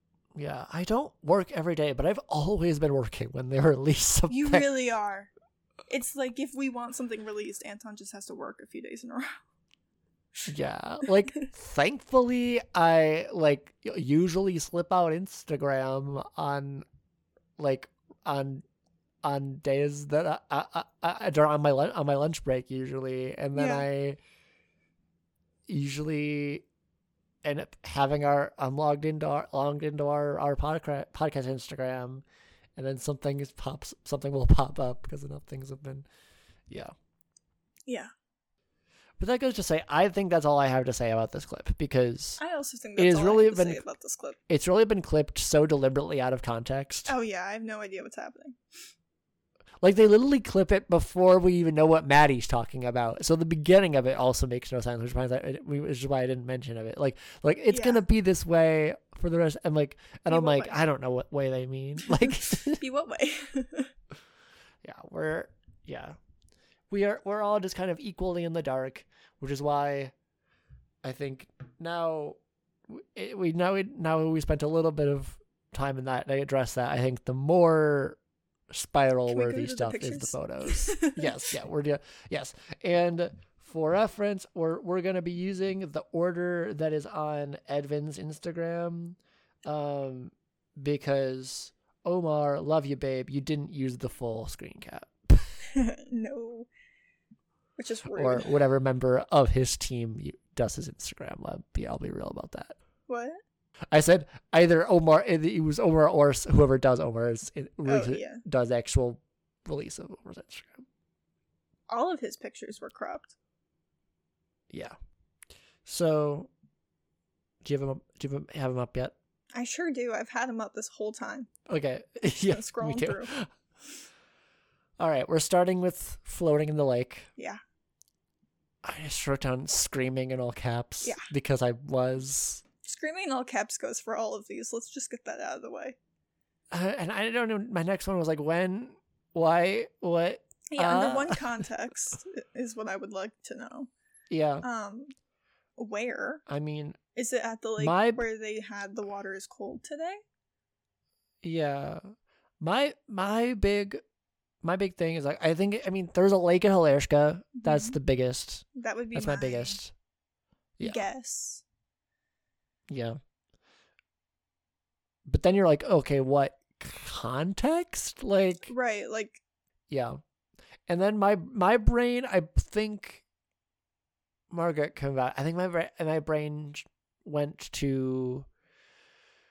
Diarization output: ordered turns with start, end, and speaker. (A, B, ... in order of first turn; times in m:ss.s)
0:00.3-0:04.7 A
0:04.3-0:05.3 B
0:05.9-0:09.3 B
0:10.4-0:16.8 A
0:17.6-0:18.6 A
0:19.2-0:24.2 A
0:23.5-0:23.8 B
0:25.7-0:26.6 A
0:27.4-0:32.2 A
0:32.8-0:36.1 A
0:37.8-0:38.1 B
0:39.2-0:42.4 A
0:42.4-0:44.4 B
0:43.0-0:43.8 A
0:44.5-0:47.1 A
0:47.1-0:48.6 B
0:49.8-1:02.8 A
0:57.7-0:58.0 B
1:00.3-1:00.8 B
1:02.0-1:03.9 B
1:04.8-1:06.2 A
1:06.9-1:10.1 A
1:11.0-1:12.4 A
1:12.9-1:18.2 A
1:18.7-1:35.5 A
1:19.3-1:21.3 B
1:35.7-1:36.7 B
1:37.8-1:38.5 B
1:38.1-1:42.8 A
1:43.1-1:43.4 B
1:43.9-1:50.8 A
1:47.8-1:48.4 B
1:51.9-1:53.3 B
1:54.7-1:55.0 A
1:55.8-1:56.5 A
1:57.6-1:59.1 A
1:59.5-2:01.5 B
2:01.7-2:03.5 A
2:02.5-2:03.3 B
2:05.0-2:07.3 A
2:08.8-2:12.6 A
2:12.8-2:16.0 B
2:16.7-2:21.6 A
2:20.7-2:23.9 B
2:24.3-2:24.6 A
2:24.6-2:25.1 B
2:25.8-2:26.4 B
2:26.5-2:27.0 A
2:27.1-2:30.2 B
2:27.8-2:28.2 A
2:31.4-2:32.0 A
2:32.6-2:34.0 A
2:34.6-2:39.9 A
2:37.6-2:38.0 B
2:38.7-2:39.8 B
2:40.8-2:41.0 A
2:40.8-2:41.6 B
2:42.9-2:43.2 A
2:45.2-2:48.7 A
2:48.7-2:49.4 B
2:49.9-2:50.2 A
2:50.9-2:53.2 A
2:54.5-2:58.5 A